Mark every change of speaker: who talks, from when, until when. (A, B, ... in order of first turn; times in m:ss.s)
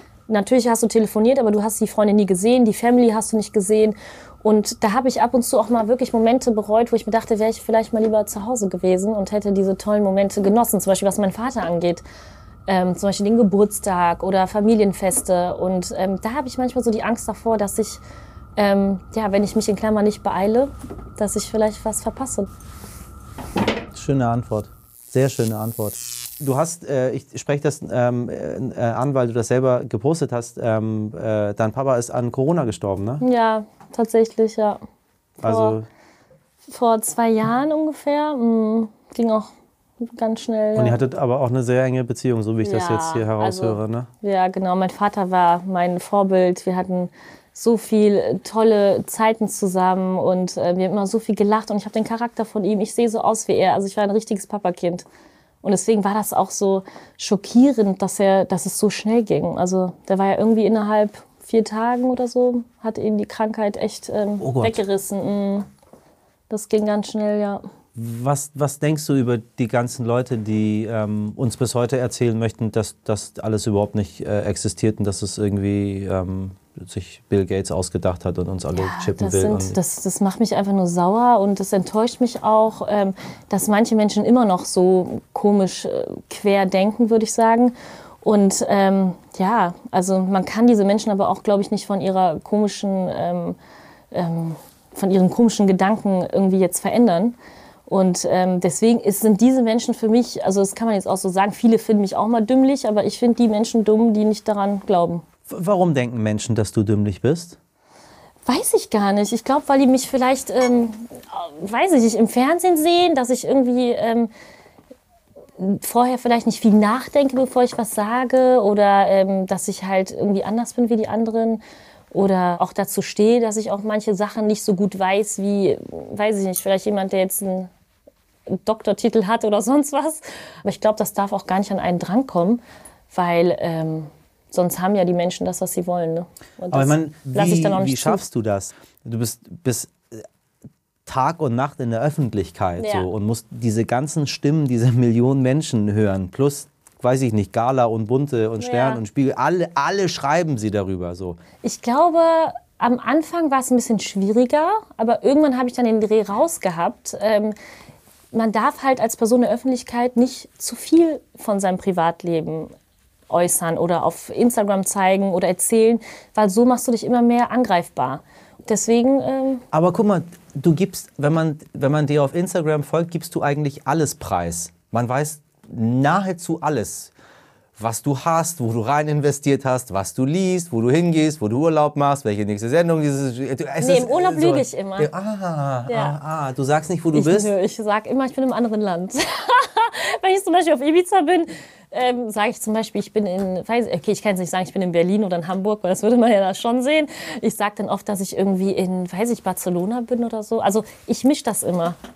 0:00.3-0:12.0 A
0:12.7-0:18.0 A
0:18.6-0:22.5 A
0:23.9-0:33.2 B
0:33.2-0:34.8 A
0:35.4-0:35.8 A
0:35.4-0:35.9 B
0:36.7-0:41.0 A
0:40.8-0:44.1 B
0:42.6-0:55.1 A
0:55.6-1:05.7 A
1:04.4-1:04.8 B
1:06.5-1:07.6 A
1:08.0-1:19.8 B
1:18.8-1:33.6 A
1:34.1-1:37.4 A
1:37.9-1:45.3 A
1:45.5-1:47.6 B
1:48.4-1:54.3 A
1:55.6-2:01.6 A
2:02.1-2:07.7 A
2:08.5-2:18.2 A
2:16.7-2:20.2 B
2:21.1-2:31.4 B
2:22.8-2:23.1 A
2:28.6-2:29.0 A
2:31.6-2:37.5 A
2:38.3-2:42.7 A
2:43.3-2:49.6 A
2:49.7-2:57.1 B
2:57.8-3:07.5 B
3:03.8-3:05.1 A
3:05.9-3:06.2 A
3:07.1-3:22.0 A